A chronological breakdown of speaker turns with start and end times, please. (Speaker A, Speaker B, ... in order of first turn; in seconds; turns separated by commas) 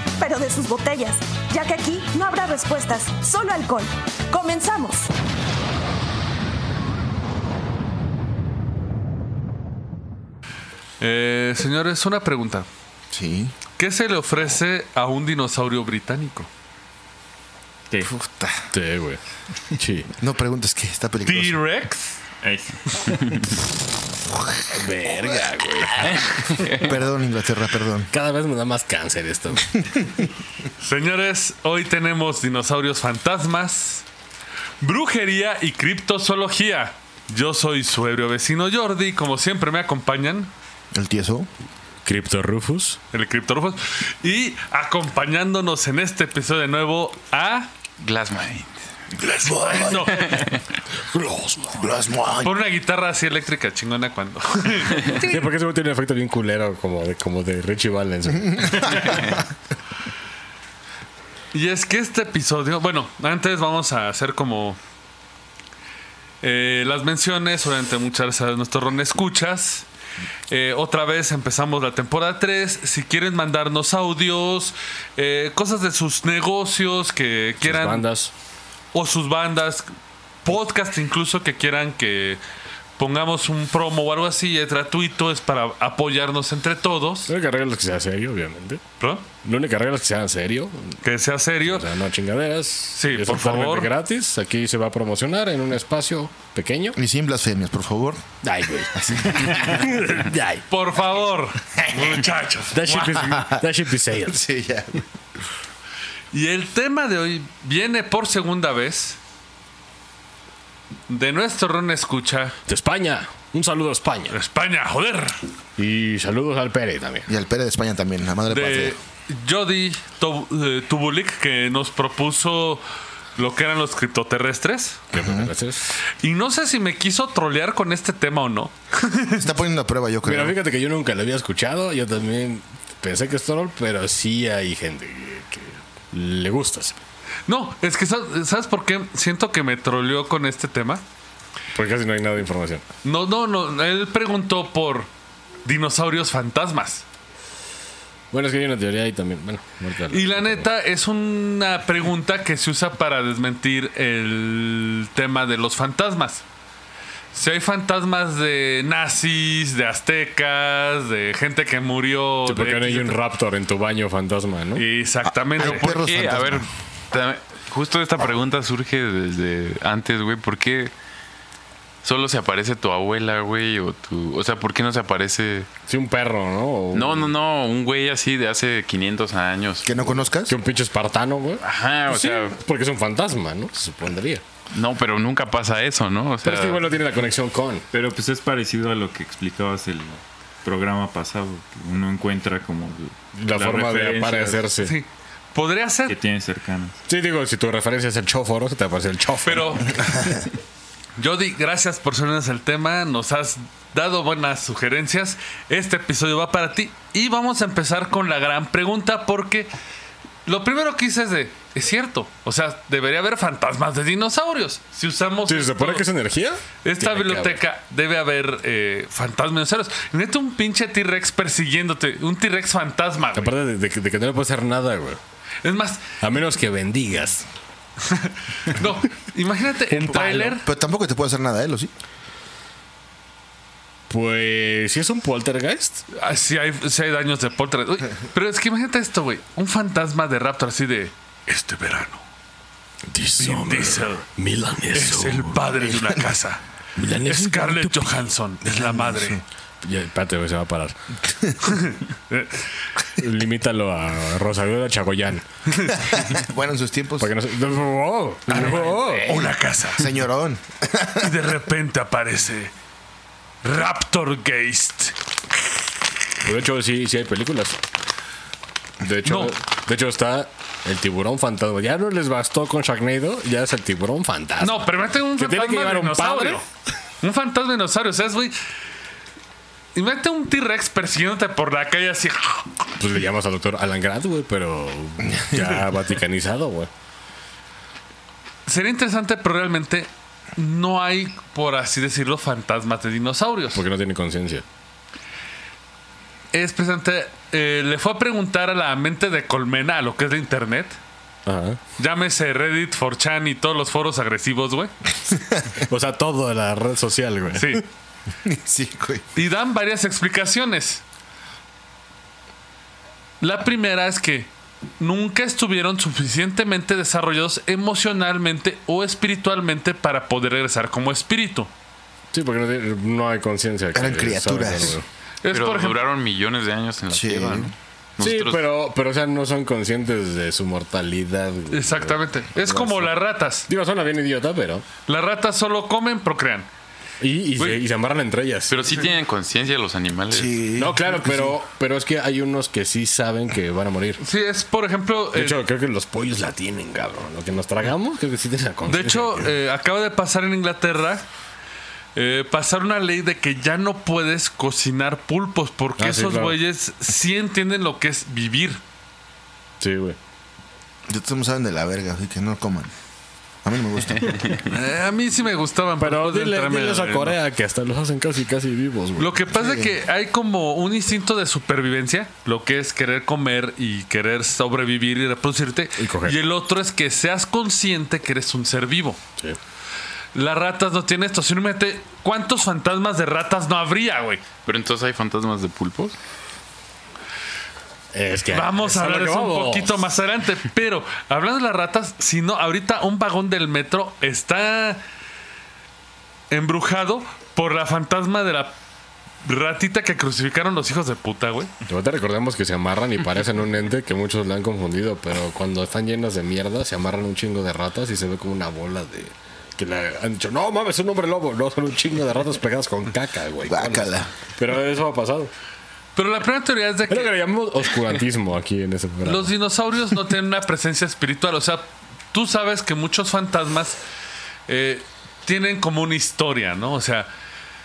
Speaker A: 0.2-5.1, Speaker B: 11.0-12.7, Speaker C: 13.1-13.5, Speaker B: 13.8-16.5, Speaker C: 18.0-18.7, Speaker D: 18.7-19.2, Speaker D: 19.8-20.1, Speaker C: 20.2-21.6, Speaker B: 21.3-22.2, Speaker E: 22.4-23.4, Speaker C: 24.3-24.6, Speaker D: 24.7-26.7, Speaker C: 25.2-26.1, Speaker C: 26.7-28.1, Speaker D: 28.1-29.8, Speaker C: 30.0-30.3, Speaker B: 30.8-34.0, Speaker B: 34.8-40.5, Speaker C: 40.9-41.5, Speaker D: 42.0-43.0, Speaker B: 43.1-47.7, Speaker F: 48.0-48.8, Speaker B: 49.2-50.2, Speaker C: 49.5-50.0, Speaker F: 50.1-50.6, Speaker D: 50.9-52.0, Speaker C: 51.8-52.6, Speaker B: 52.4-55.4, Speaker D: 55.2-59.2, Speaker C: 58.4-59.4, Speaker B: 61.5-64.8, Speaker B: 66.4-69.9, Speaker B: 70.5-78.1, Speaker D: 77.6-78.3, Speaker B: 78.9-79.9, Speaker B: 80.4-82.4, Speaker B: 83.0-87.3, Speaker D: 87.3-88.8, Speaker B: 89.0-89.2, Speaker D: 89.4-91.0, Speaker B: 91.0-91.9, Speaker D: 91.6-97.0, Speaker B: 92.9-93.9, Speaker C: 97.0-98.2, Speaker D: 98.4-100.7, Speaker C: 99.0-99.8, Speaker B: 100.7-103.2, Speaker D: 102.7-104.4, Speaker C: 103.2-103.6, Speaker C: 104.2-105.0, Speaker B: 106.3-109.2, Speaker B: 111.1-112.5, Speaker D: 112.7-114.3, Speaker B: 114.3-115.4, Speaker D: 115.8-117.3, Speaker C: 117.3-119.0, Speaker B: 118.5-122.8, Speaker B: 123.4-125.0, Speaker D: 125.1-126.0, Speaker C: 125.2-125.5, Speaker B: 126.2-129.4, Speaker C: 129.3-130.6, Speaker D: 130.2-137.0, Speaker B: 137.5-141.0, Speaker D: 141.7-142.8, Speaker B: 143.0-145.1, Speaker B: 145.7-147.0, Speaker D: 148.3-150.7, Speaker B: 150.1-156.4, Speaker B: 157.3-163.2, Speaker D: 162.5-164.8, Speaker B: 164.8-165.9, Speaker C: 165.2-166.7, Speaker F: 165.6-170.9, Speaker F: 172.0-175.7, Speaker D: 175.9-177.3, Speaker F: 176.9-179.9, Speaker C: 179.8-180.6, Speaker D: 180.5-184.4, Speaker F: 181.6-182.6, Speaker F: 184.7-186.8, Speaker D: 186.4-187.9, Speaker E: 187.9-194.6, Speaker D: 193.4-194.9, Speaker B: 194.8-196.2, Speaker E: 196.1-197.0, Speaker D: 197.1-200.1, Speaker B: 199.4-199.9, Speaker C: 200.0-200.4, Speaker B: 201.2-209.7, Speaker B: 210.4-216.1, Speaker D: 215.5-217.6, Speaker B: 216.8-223.6, Speaker D: 223.3-225.2, Speaker B: 225.6-226.2, Speaker D: 226.2-227.5, Speaker B: 228.0-230.7, Speaker D: 229.9-230.4, Speaker C: 230.1-231.9, Speaker D: 234.1-236.0, Speaker B: 236.1-242.2, Speaker D: 243.1-245.6, Speaker B: 243.4-244.3, Speaker B: 244.9-246.6, Speaker C: 245.8-246.3, Speaker D: 247.0-248.1, Speaker B: 247.2-249.4, Speaker C: 248.6-249.4, Speaker D: 249.8-251.2, Speaker B: 251.6-252.7, Speaker D: 253.2-255.4, Speaker C: 255.9-257.4, Speaker D: 257.2-259.4, Speaker B: 258.5-260.1, Speaker C: 258.5-261.4, Speaker B: 261.2-262.7, Speaker B: 263.6-265.1, Speaker D: 266.4-267.8, Speaker D: 269.0-276.6, Speaker B: 269.2-269.5, Speaker B: 274.6-276.6, Speaker B: 277.2-278.6, Speaker B: 279.9-282.9, Speaker D: 283.0-286.9, Speaker B: 288.7-293.8, Speaker D: 293.7-294.6, Speaker B: 296.5-301.0, Speaker D: 301.5-301.8, Speaker B: 302.0-304.9, Speaker C: 305.3-305.8, Speaker D: 305.9-307.8, Speaker B: 307.5-307.8, Speaker C: 308.4-309.2, Speaker B: 309.3-311.0, Speaker B: 313.4-321.7, Speaker D: 322.3-325.1, Speaker C: 323.9-325.0, Speaker B: 325.4-326.0, Speaker F: 325.5-328.6, Speaker C: 327.1-327.7, Speaker D: 328.2-333.1, Speaker B: 331.7-333.7, Speaker D: 333.7-334.9, Speaker B: 335.1-336.7, Speaker D: 337.2-338.8, Speaker F: 338.7-340.6, Speaker C: 340.3-341.6, Speaker D: 340.8-344.2, Speaker B: 344.2-345.6, Speaker D: 345.3-349.5, Speaker B: 348.9-351.3, Speaker B: 352.1-358.8, Speaker D: 356.0-356.6, Speaker D: 359.8-360.2, Speaker C: 361.1-362.9, Speaker C: 363.6-364.5, Speaker B: 364.7-367.4, Speaker D: 366.0-369.4, Speaker B: 369.2-379.2, Speaker C: 369.5-369.9, Speaker D: 376.0-376.4, Speaker B: 380.4-384.4, Speaker F: 384.6-386.1, Speaker D: 388.1-390.0, Speaker B: 388.5-395.0, Speaker B: 396.5-398.7, Speaker B: 399.4-401.7, Speaker D: 401.9-415.5, Speaker C: 413.6-414.3, Speaker B: 416.2-417.4, Speaker D: 417.1-419.5, Speaker B: 419.2-424.0, Speaker B: 424.7-427.3